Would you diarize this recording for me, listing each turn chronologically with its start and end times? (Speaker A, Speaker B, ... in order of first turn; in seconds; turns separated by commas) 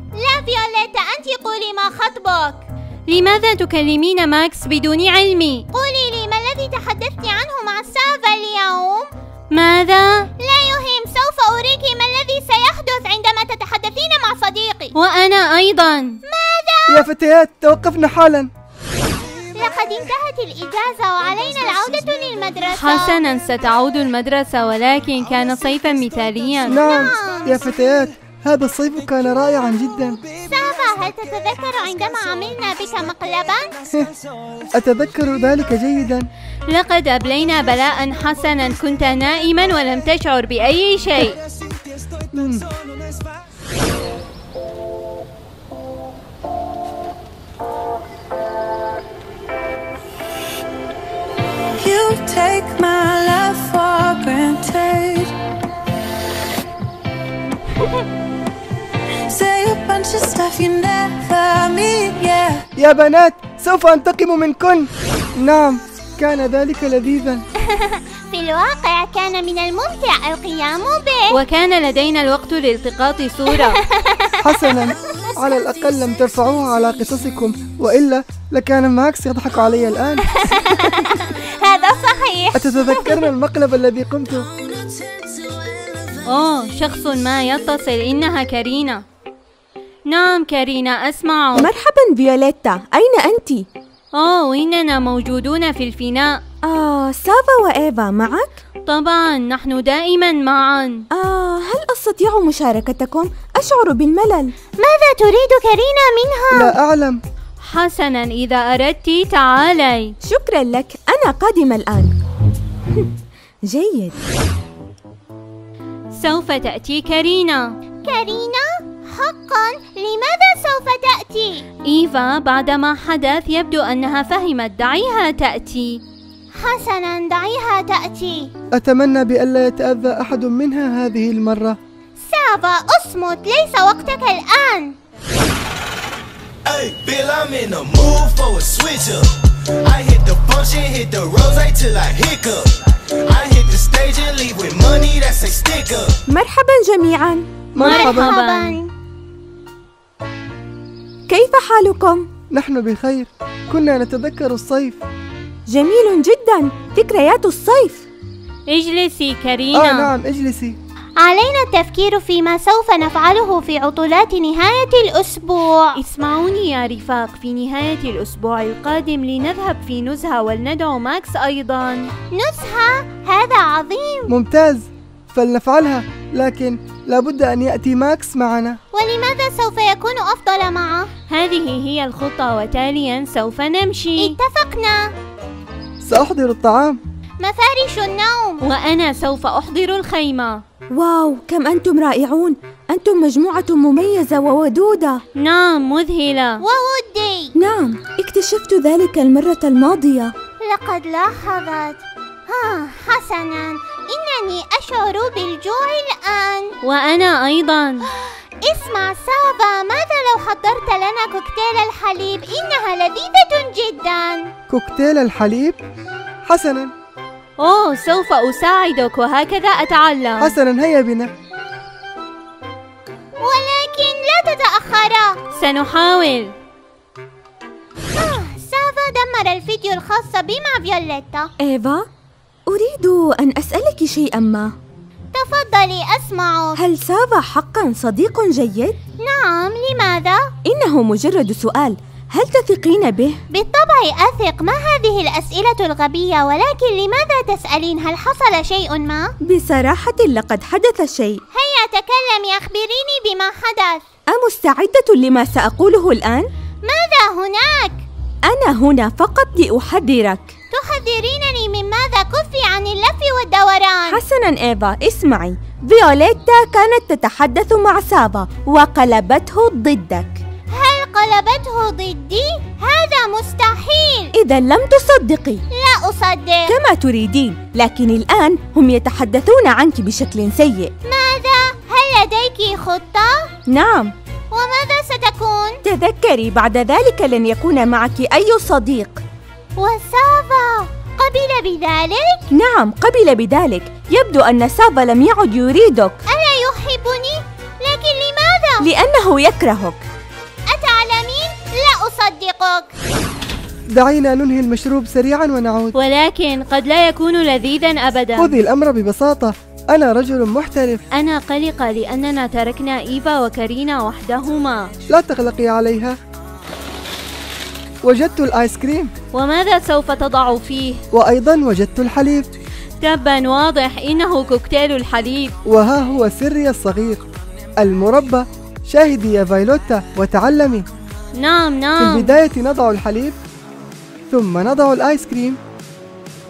Speaker A: 0.1-2.6, Speaker B: 3.1-5.6, Speaker A: 5.7-9.1, Speaker B: 9.5-10.3, Speaker A: 10.4-14.9, Speaker B: 14.9-16.2, Speaker A: 16.3-17.1, Speaker C: 16.9-18.5, Speaker A: 19.5-23.2, Speaker B: 22.7-26.8, Speaker C: 26.7-30.2, Speaker A: 26.7-27.6, Speaker A: 30.4-33.8, Speaker C: 34.7-36.2, Speaker B: 36.7-41.4, Speaker C: 42.3-42.6, Speaker D: 51.8-55.3, Speaker D: 59.2-62.6, Speaker C: 62.8-67.4, Speaker A: 67.6-71.3, Speaker B: 71.3-73.8, Speaker A: 73.7-74.8, Speaker C: 74.4-80.3, Speaker A: 80.2-83.3, Speaker C: 82.5-84.5, Speaker B: 86.2-89.0, Speaker B: 90.1-91.7, Speaker E: 91.5-93.7, Speaker B: 94.1-96.4, Speaker E: 96.6-98.5, Speaker B: 98.8-101.0, Speaker E: 101.1-104.5, Speaker A: 104.8-106.7, Speaker C: 106.5-107.2, Speaker B: 107.6-110.1, Speaker E: 110.2-112.2, Speaker E: 113.7-114.2, Speaker B: 116.1-117.7, Speaker A: 118.0-121.6, Speaker B: 121.8-126.0, Speaker A: 126.6-128.5, Speaker C: 128.7-131.8, Speaker A: 132.3-134.9, Speaker F: 136.7-146.2, Speaker E: 146.3-147.5, Speaker C: 147.7-148.3, Speaker B: 147.8-148.8, Speaker A: 147.8-148.9, Speaker E: 151.3-152.3, Speaker C: 152.5-155.0, Speaker E: 155.7-158.0, Speaker B: 158.7-160.1, Speaker C: 159.7-160.8, Speaker A: 161.2-166.0, Speaker B: 165.9-172.1, Speaker A: 172.3-174.3, Speaker C: 174.3-178.8, Speaker A: 178.9-181.1, Speaker B: 181.3-184.3, Speaker A: 184.2-185.1, Speaker C: 186.0-187.0, Speaker A: 187.4-188.6, Speaker B: 188.6-190.6, Speaker E: 190.9-195.2, Speaker B: 195.3-196.6, Speaker A: 196.6-197.5, Speaker E: 197.6-200.3, Speaker A: 200.7-206.7, Speaker B: 206.8-208.1, Speaker A: 208.6-214.5, Speaker C: 214.7-215.8, Speaker C: 216.4-216.9, Speaker B: 217.6-220.5, Speaker C: 220.4-221.3, Speaker A: 223.4-225.4, Speaker B: 225.5-226.5, Speaker A: 228.1-231.5, Speaker E: 231.6-232.1, Speaker E: 232.7-234.7, Speaker A: 235.3-236.8, Speaker E: 236.8-239.0, Speaker A: 239.2-240.4, Speaker E: 240.6-243.4, Speaker A: 243.5-249.3, Speaker E: 249.4-251.4, Speaker A: 251.5-254.0, Speaker E: 254.3-256.5, Speaker A: 256.9-258.0, Speaker E: 258.4-260.5, Speaker A: 260.7-264.2, Speaker E: 264.1-270.4, Speaker A: 270.7-274.3, Speaker E: 274.3-275.6, Speaker A: 275.8-276.7, Speaker E: 276.7-280.9, Speaker A: 281.1-283.3, Speaker E: 283.7-284.1, Speaker A: 284.5-285.8, Speaker E: 285.8-289.2, Speaker A: 289.8-292.4, Speaker E: 292.5-296.2, Speaker A: 296.3-298.9, Speaker E: 298.8-300.0, Speaker A: 300.7-302.9, Speaker C: 303.9-305.9, Speaker B: 305.9-308.5, Speaker C: 308.4-311.0, Speaker B: 311.1-314.9, Speaker C: 315.1-316.1, Speaker C: 318.0-319.1, Speaker B: 319.3-321.0, Speaker C: 321.1-322.5, Speaker B: 323.0-325.5, Speaker C: 325.6-327.2, Speaker C: 327.8-330.9, Speaker B: 331.4-332.3, Speaker C: 332.0-333.4, Speaker C: 334.3-335.6